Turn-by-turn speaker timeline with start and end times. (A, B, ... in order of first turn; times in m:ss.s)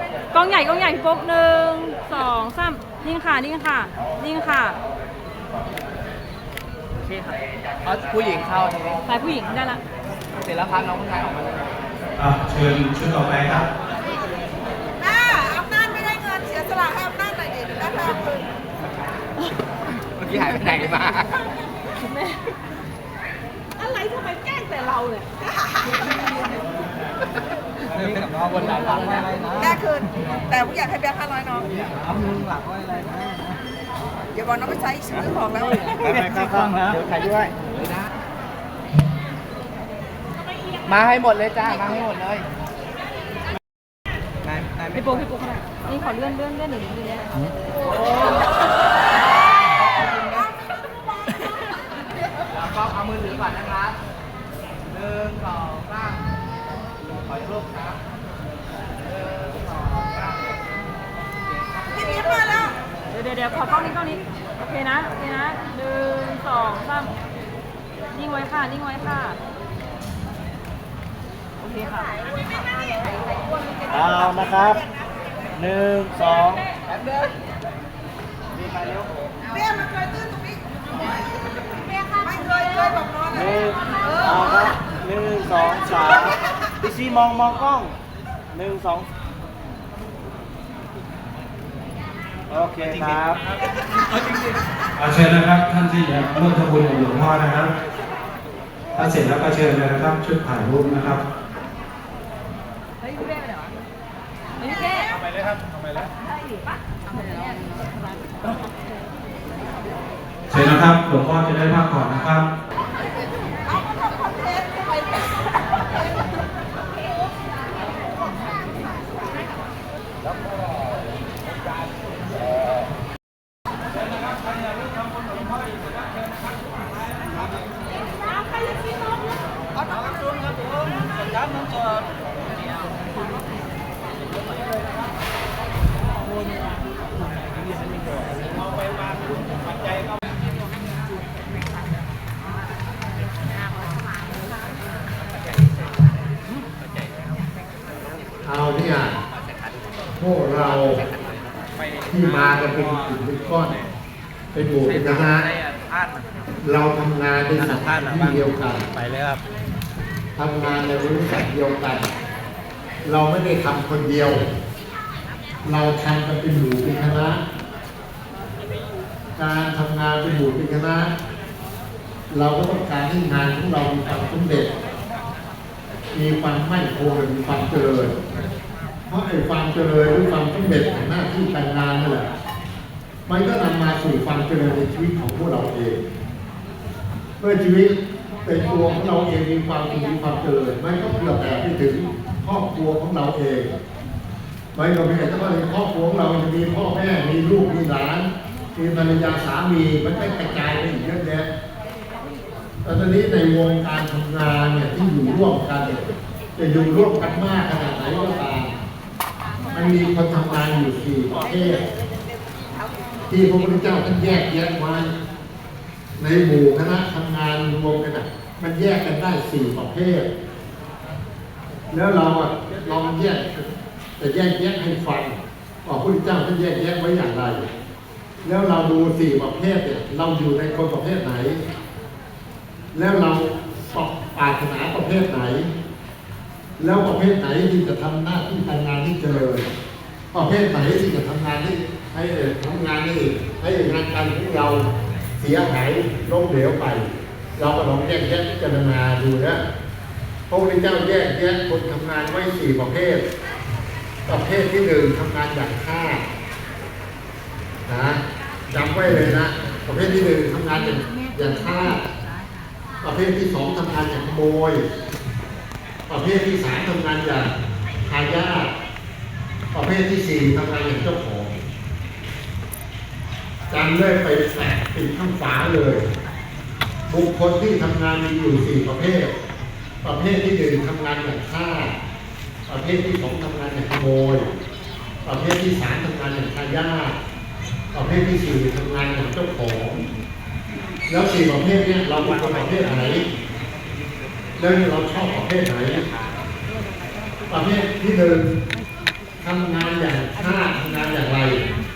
0:00.3-0:04.8 A
0:07.8-0:09.0 B
0:09.1-0:09.8 A
0:10.4-0:11.6 B
0:12.2-0:13.7 C
0:15.0-0:18.2 D
0:20.2-0:21.3 B
0:23.8-0:25.2 A
0:27.9-0:29.6 B
0:28.8-0:31.8 D
0:31.8-0:33.3 B
0:34.4-0:36.1 D
0:36.1-0:37.6 B
0:36.1-0:36.6 E
0:40.9-0:42.4 B
0:44.4-0:45.1 B
0:44.9-0:47.5 A
0:53.0-0:53.9 B
0:55.0-0:55.8 B
0:57.3-0:57.7 B
1:01.9-1:02.7 D
1:03.1-1:07.2 A
1:08.1-1:09.4 A
1:11.6-1:12.1 A
1:13.9-1:14.8 E
1:15.5-1:16.7 E
1:18.5-1:19.1 E
1:19.5-1:20.6 D
1:22.2-1:23.4 D
1:23.3-1:28.0 E
1:28.5-1:29.1 E
1:32.5-1:33.4 E
1:35.0-1:37.7 C
1:39.0-1:41.2 C
1:43.1-1:43.6 A
1:44.7-1:45.0 A
1:50.5-1:52.5 C
1:54.2-1:54.6 D
2:28.4-2:29.2 F
2:30.2-2:31.0 F
2:32.0-2:33.8 F
2:34.5-2:35.6 F
2:36.6-2:38.9 F
2:40.4-2:42.1 F
2:43.0-2:44.4 F
2:45.6-2:47.4 F
2:49.4-2:51.1 F
2:52.3-2:54.7 F
2:56.1-2:58.1 F
2:59.1-3:02.3 F
3:03.3-3:06.0 F
3:07.4-3:13.7 F
3:14.7-3:21.5 F
3:22.8-3:26.1 F
3:26.6-3:28.7 F
3:29.7-3:31.9 F
3:33.3-3:35.1 F
3:36.2-3:40.3 F
3:41.9-3:43.7 F
3:44.2-3:47.6 F
3:48.4-3:51.6 F
3:52.9-3:55.7 F
3:56.8-3:59.7 F
4:00.3-4:04.8 F
4:05.4-4:07.1 F
4:07.6-4:09.6 F
4:10.5-4:13.2 F
4:14.3-4:16.3 F
4:17.9-4:22.0 F
4:23.0-4:24.8 F
4:26.1-4:27.5 F
4:28.1-4:28.7 F
4:29.7-4:31.6 F
4:33.7-4:36.0 F
4:37.1-4:39.3 F
4:40.0-4:42.0 F
4:42.7-4:44.5 F
4:45.2-4:47.2 F
4:47.9-4:50.0 F
4:51.1-4:53.2 F
4:54.6-4:56.1 F
4:57.5-4:58.5 F
4:59.4-5:01.6 F